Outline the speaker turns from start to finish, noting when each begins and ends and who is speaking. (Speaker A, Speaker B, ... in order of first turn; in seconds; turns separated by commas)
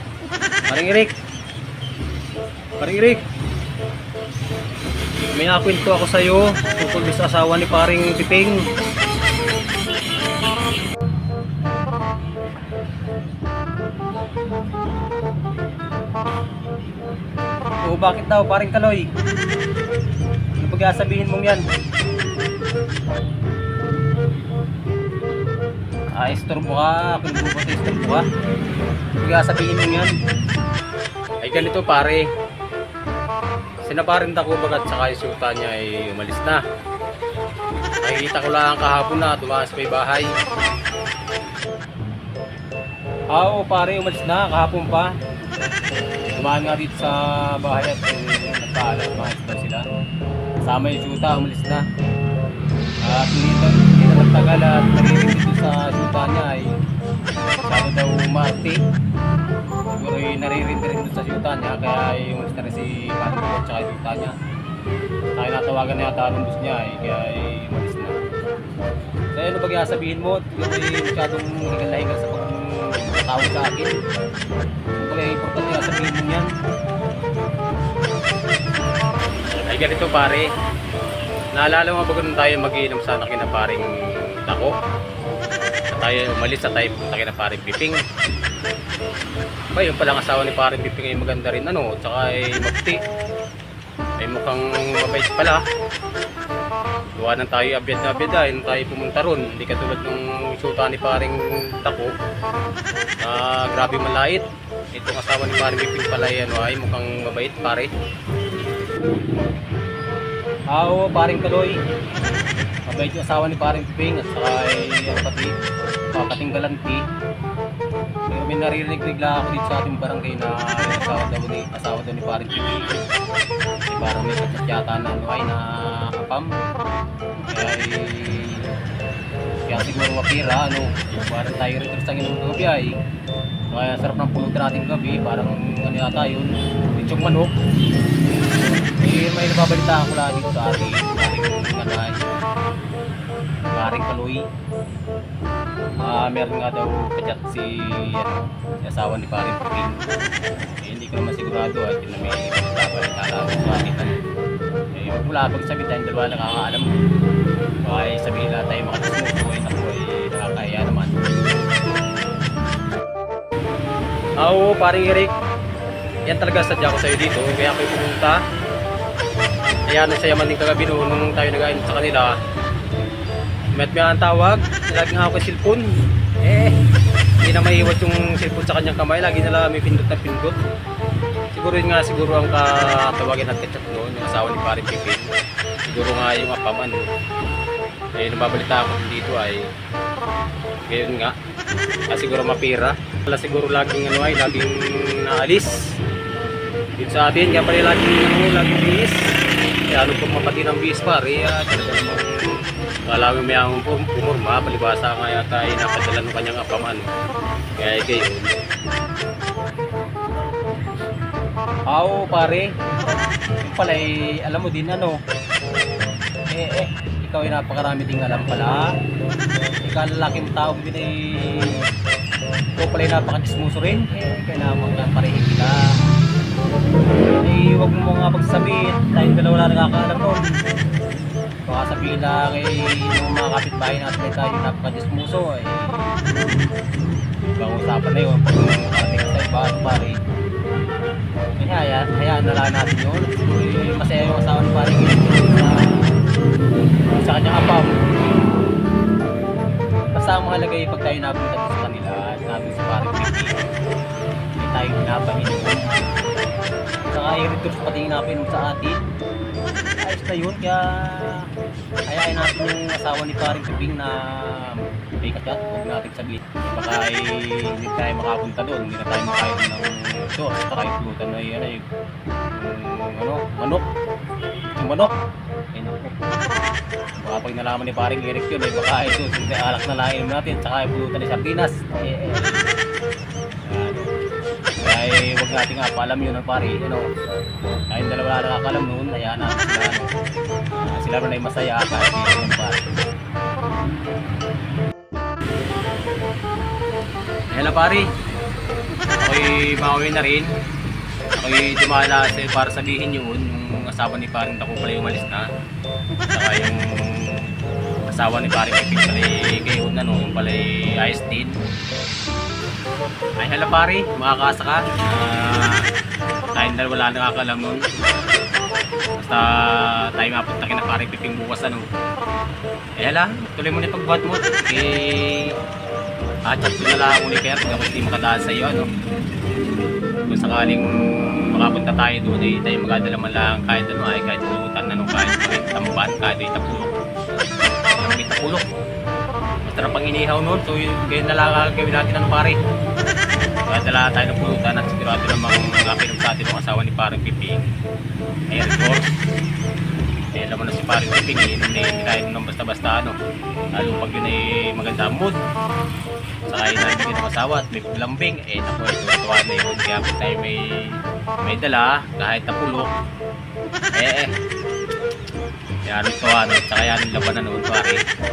Speaker A: 0.7-1.1, Speaker A: 2.8-3.2, Speaker A: 5.3-8.7, Speaker A: 17.8-19.1, Speaker A: 20.6-21.6, Speaker A: 26.1-28.2, Speaker A: 29.2-30.1, Speaker A: 31.4-32.2, Speaker A: 33.8-36.6, Speaker A: 38.0-40.3, Speaker A: 43.3-45.1, Speaker A: 46.4-49.9, Speaker A: 50.6-51.8, Speaker A: 53.0-56.8, Speaker A: 57.6-58.8, Speaker A: 59.9-64.3, Speaker A: 65.3-68.2, Speaker A: 69.3-73.9, Speaker A: 75.0-76.5, Speaker A: 79.5-80.5, Speaker A: 81.5-84.7, Speaker A: 85.9-88.0, Speaker A: 89.7-93.0, Speaker A: 94.2-95.6, Speaker A: 97.2-102.1, Speaker A: 103.2-107.9, Speaker A: 110.7-111.8, Speaker A: 112.9-115.5, Speaker A: 116.1-117.0, Speaker A: 118.3-123.0, Speaker A: 123.9-126.5, Speaker A: 127.5-128.8, Speaker A: 129.7-132.9, Speaker A: 133.7-137.5, Speaker A: 139.0-142.2, Speaker A: 143.7-144.4, Speaker A: 146.0-150.0, Speaker A: 150.8-154.2, Speaker A: 154.9-156.9, Speaker A: 157.8-161.2, Speaker A: 164.4-165.3, Speaker A: 166.3-168.4, Speaker A: 169.9-172.3, Speaker A: 173.7-175.8, Speaker A: 176.4-176.8, Speaker A: 177.4-180.6, Speaker A: 181.5-185.3, Speaker A: 185.9-187.1, Speaker A: 188.2-189.7, Speaker A: 190.9-191.3, Speaker A: 192.1-195.7, Speaker A: 197.0-199.3, Speaker A: 199.9-207.1, Speaker A: 207.8-208.6, Speaker A: 211.9-212.7, Speaker A: 213.6-215.2, Speaker A: 216.5-218.9, Speaker A: 219.8-221.8, Speaker A: 222.8-225.8, Speaker A: 227.4-230.4, Speaker A: 231.7-236.1, Speaker A: 237.6-240.2, Speaker A: 241.6-246.2, Speaker A: 247.1-248.0, Speaker A: 250.1-253.5, Speaker A: 254.6-256.2, Speaker A: 257.1-259.0, Speaker A: 260.0-261.5, Speaker A: 262.1-271.8, Speaker A: 272.5-273.8, Speaker A: 274.8-275.1, Speaker A: 275.7-276.2, Speaker A: 277.2-282.6, Speaker A: 283.7-284.1, Speaker A: 284.8-287.1, Speaker A: 287.9-290.1, Speaker A: 290.7-292.8, Speaker A: 297.5-298.1, Speaker A: 299.2-300.5, Speaker A: 301.4-305.4, Speaker A: 306.3-307.4, Speaker A: 308.1-311.5, Speaker A: 313.4-315.8, Speaker A: 316.5-317.8, Speaker A: 319.2-321.9, Speaker A: 323.0-325.5, Speaker A: 326.5-328.9, Speaker A: 330.3-336.9, Speaker A: 337.9-338.6, Speaker A: 339.6-342.6, Speaker A: 343.7-347.7, Speaker A: 348.5-349.2, Speaker A: 350.3-353.1, Speaker A: 353.8-355.4, Speaker A: 356.5-362.9, Speaker A: 363.9-364.3, Speaker A: 365.9-368.0